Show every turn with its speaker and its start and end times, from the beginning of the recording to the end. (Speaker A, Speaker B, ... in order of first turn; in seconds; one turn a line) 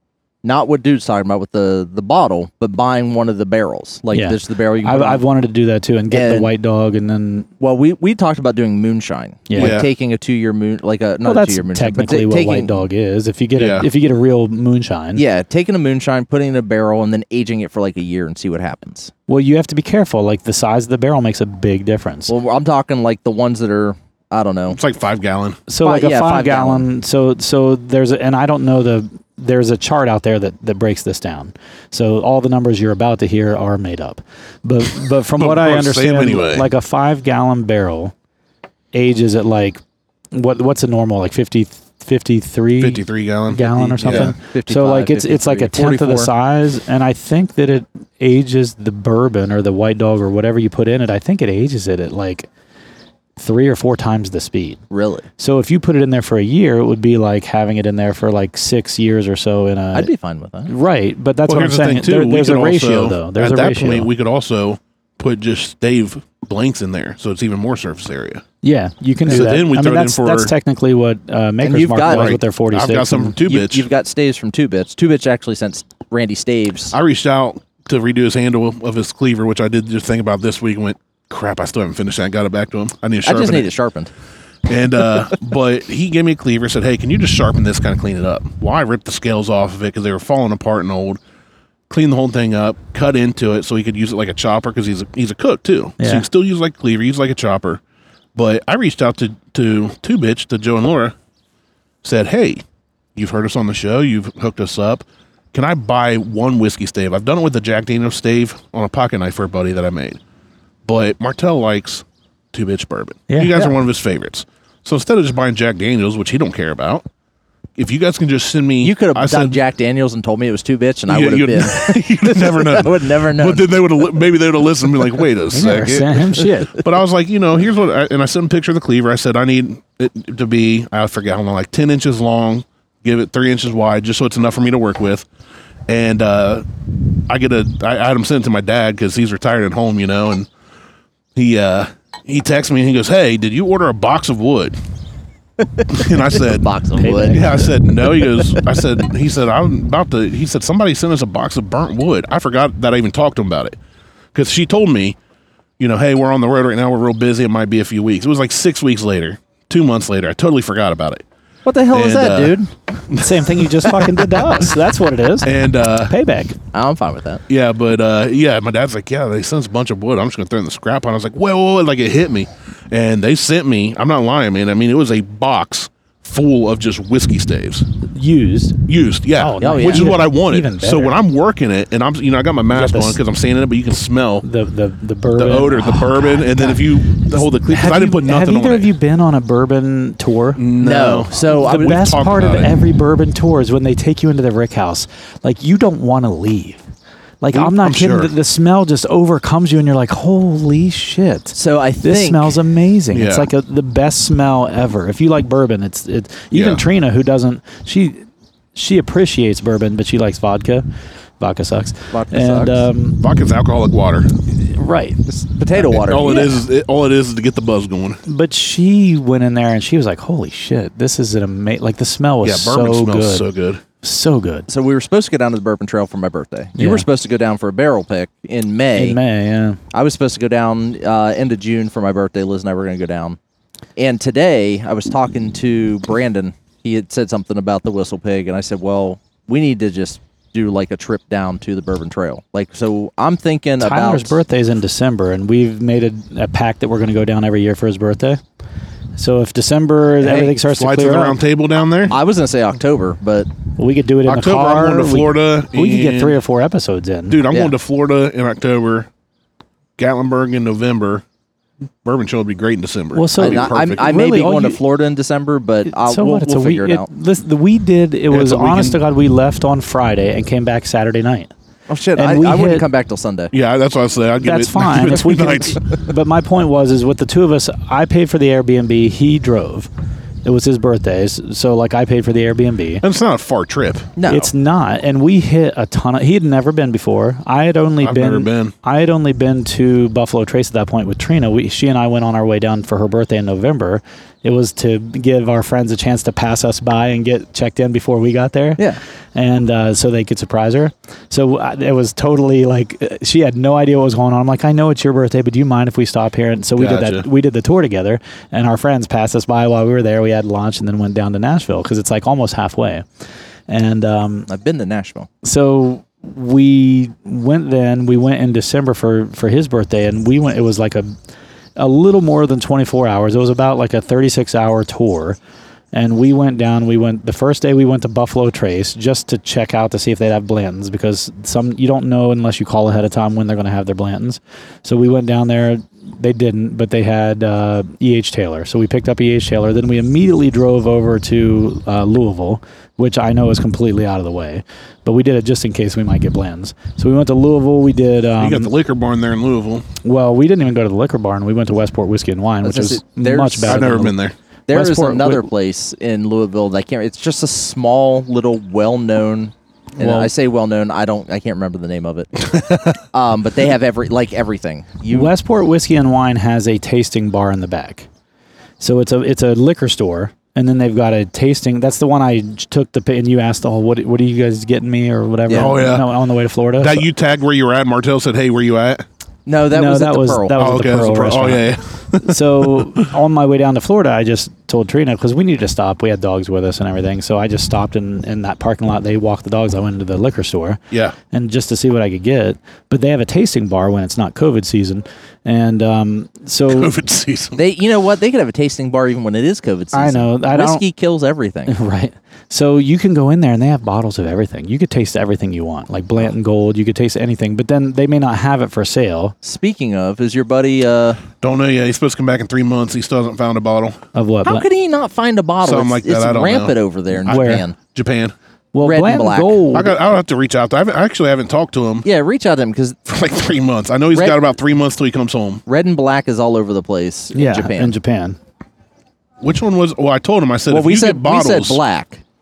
Speaker A: 0.4-5.2
Speaker B: 4.1-7.5
Speaker A: 6.1-6.5
Speaker A: 7.6-12.8
Speaker B: 9.5-9.8
Speaker C: 9.6-9.9
Speaker B: 11.2-15.2
Speaker C: 13.6-13.9
Speaker A: 15.1-19.1
Speaker B: 19.3-22.3
Speaker A: 22.3-24.8
Speaker C: 24.7-25.6
Speaker B: 25.7-38.1
Speaker A: 25.8-26.8
Speaker C: 35.4-36.7
Speaker B: 38.9-39.8
Speaker B: 40.3-52.5
Speaker C: 42.8-44.3
Speaker A: 44.0-46.3
Speaker B: 53.4-54.8
Speaker A: 54.9-55.3
Speaker B: 55.4-60.1
Speaker A: 59.9-60.7
Speaker B: 60.7-64.1
Speaker C: 61.5-68.4
Speaker B: 68.6-73.4
Speaker C: 69.3-70.5
Speaker A: 71.6-72.4
Speaker C: 72.0-73.8
Speaker A: 73.4-76.9
Speaker C: 76.9-83.7
Speaker A: 83.2-84.1
Speaker C: 84.7-91.2
Speaker C: 91.9-97.8
Speaker B: 96.0-96.2
Speaker C: 98.3-101.1
Speaker C: 102.0-102.6
Speaker C: 103.2-110.2
Speaker C: 110.8-117.0
Speaker B: 113.3-113.7
Speaker C: 117.8-119.6
Speaker A: 118.8-123.8
Speaker C: 121.1-135.3
Speaker B: 125.5-126.7
Speaker C: 135.9-136.7
Speaker C: 137.3-140.5
Speaker C: 141.3-144.8
Speaker C: 145.9-146.7
Speaker A: 146.4-147.5
Speaker B: 147.0-147.7
Speaker C: 147.3-153.8
Speaker C: 154.3-155.2
Speaker C: 155.8-161.2
Speaker A: 161.7-162.7
Speaker C: 161.9-162.6
Speaker C: 163.1-164.1
Speaker B: 163.1-166.6
Speaker C: 165.4-166.1
Speaker A: 166.7-167.4
Speaker C: 167.5-177.8
Speaker B: 178.1-178.8
Speaker C: 178.9-184.4
Speaker B: 179.3-181.2
Speaker A: 179.6-180.2
Speaker B: 182.7-183.2
Speaker B: 184.4-190.6
Speaker C: 185.3-188.9
Speaker C: 190.6-192.8
Speaker A: 190.8-191.9
Speaker B: 191.5-196.8
Speaker B: 197.4-210.8
Speaker C: 197.5-198.3
Speaker A: 201.5-202.5
Speaker C: 203.1-203.5
Speaker C: 206.5-206.8
Speaker B: 211.4-213.2
Speaker A: 212.1-212.9
Speaker C: 213.1-214.3
Speaker B: 214.6-215.3
Speaker A: 215.3-216.5
Speaker C: 215.7-218.2
Speaker B: 218.2-223.4
Speaker C: 222.4-223.8
Speaker B: 224.0-224.7
Speaker A: 224.7-229.2
Speaker B: 226.8-227.1
Speaker B: 228.9-229.8
Speaker A: 229.9-233.4
Speaker A: 234.0-244.4
Speaker B: 243.8-248.4
Speaker B: 249.2-251.4
Speaker A: 250.2-250.6
Speaker C: 250.7-252.2
Speaker A: 252.1-253.5
Speaker B: 253.8-257.4
Speaker C: 254.2-256.4
Speaker C: 257.3-259.1
Speaker C: 260.0-261.2
Speaker C: 262.0-264.1
Speaker B: 263.1-264.8
Speaker A: 263.4-267.1
Speaker B: 265.9-271.5
Speaker C: 268.3-269.0
Speaker A: 271.9-273.5
Speaker B: 272.1-272.9
Speaker C: 273.5-275.8
Speaker B: 274.4-279.9
Speaker B: 280.4-283.0
Speaker C: 283.0-284.1
Speaker A: 284.2-284.5
Speaker B: 284.3-298.8
Speaker C: 288.0-288.7
Speaker B: 299.3-313.0
Speaker C: 306.8-307.3
Speaker B: 313.7-314.5
Speaker A: 314.5-315.3
Speaker B: 315.4-321.1
Speaker B: 321.8-325.4
Speaker B: 325.9-348.7
Speaker C: 348.4-349.8
Speaker B: 350.0-354.2
Speaker A: 352.6-354.0
Speaker C: 353.6-354.3
Speaker A: 354.7-365.3
Speaker B: 354.7-355.5
Speaker B: 360.0-360.3
Speaker C: 362.5-362.9
Speaker B: 365.1-368.1
Speaker B: 368.8-377.1
Speaker C: 375.5-376.1
Speaker C: 376.8-379.0
Speaker A: 379.4-380.6
Speaker B: 379.7-381.7
Speaker C: 380.5-383.1
Speaker B: 382.2-390.8
Speaker C: 390.9-391.1
Speaker B: 391.3-396.9
Speaker C: 396.7-397.6
Speaker A: 397.6-401.7
Speaker B: 399.9-400.8
Speaker B: 401.7-409.3
Speaker A: 409.4-411.2
Speaker C: 411.4-414.0
Speaker B: 414.1-414.6
Speaker A: 414.4-417.8
Speaker C: 415.6-416.7
Speaker B: 417.2-417.6
Speaker C: 417.3-418.3
Speaker B: 418.7-420.0
Speaker A: 418.8-419.6
Speaker C: 419.7-422.1
Speaker A: 422.0-423.0
Speaker C: 423.1-425.6
Speaker A: 424.1-424.4
Speaker A: 425.6-427.9
Speaker B: 427.3-428.4
Speaker C: 429.4-431.8
Speaker A: 430.7-432.2